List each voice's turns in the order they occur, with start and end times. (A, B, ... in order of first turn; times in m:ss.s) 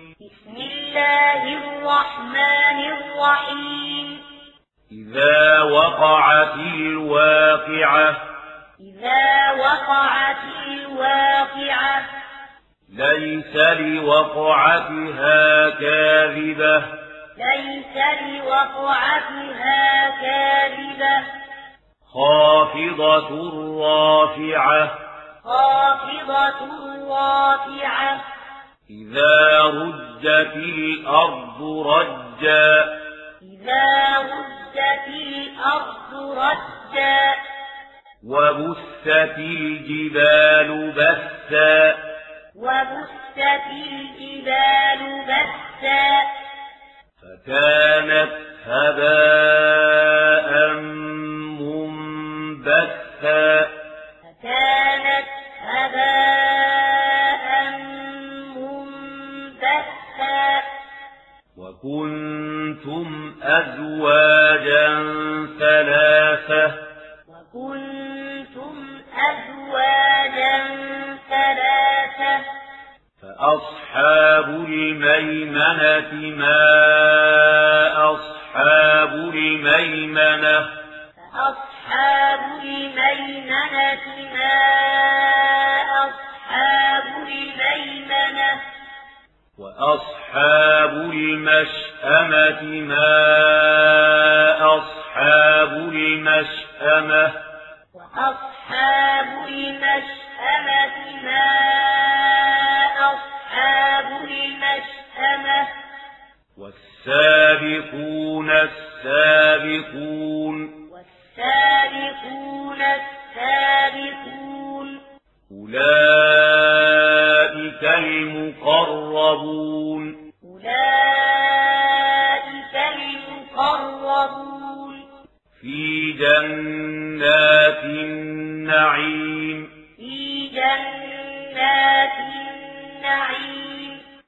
0:00.2-0:04.2 A
0:04.9-0:08.2 B
0:08.8-0:12.1 A
0:12.9-0:17.0 B
0:17.4-0:21.3 A
0:22.1-0:25.0 B
0:25.4-0:28.2 A
0:28.9-0:33.0 B
0:33.4-0:37.4 A
0:38.2-0:42.0 B
0:42.6-0:46.3 A
0:47.2-0:53.8 B
0:54.2-1:00.7 A
1:01.6-1:06.9 B
1:07.3-1:12.5 A
1:13.2-1:20.8 B
1:21.3-1:28.6 A
1:29.6-1:37.4 B
1:37.9-1:45.8 A
1:46.6-1:50.8 B
1:50.9-1:55.0 A
1:55.5-2:00.3 B
2:00.4-2:05.1 A
2:05.6-2:09.7 B
2:10.0-2:14.0 A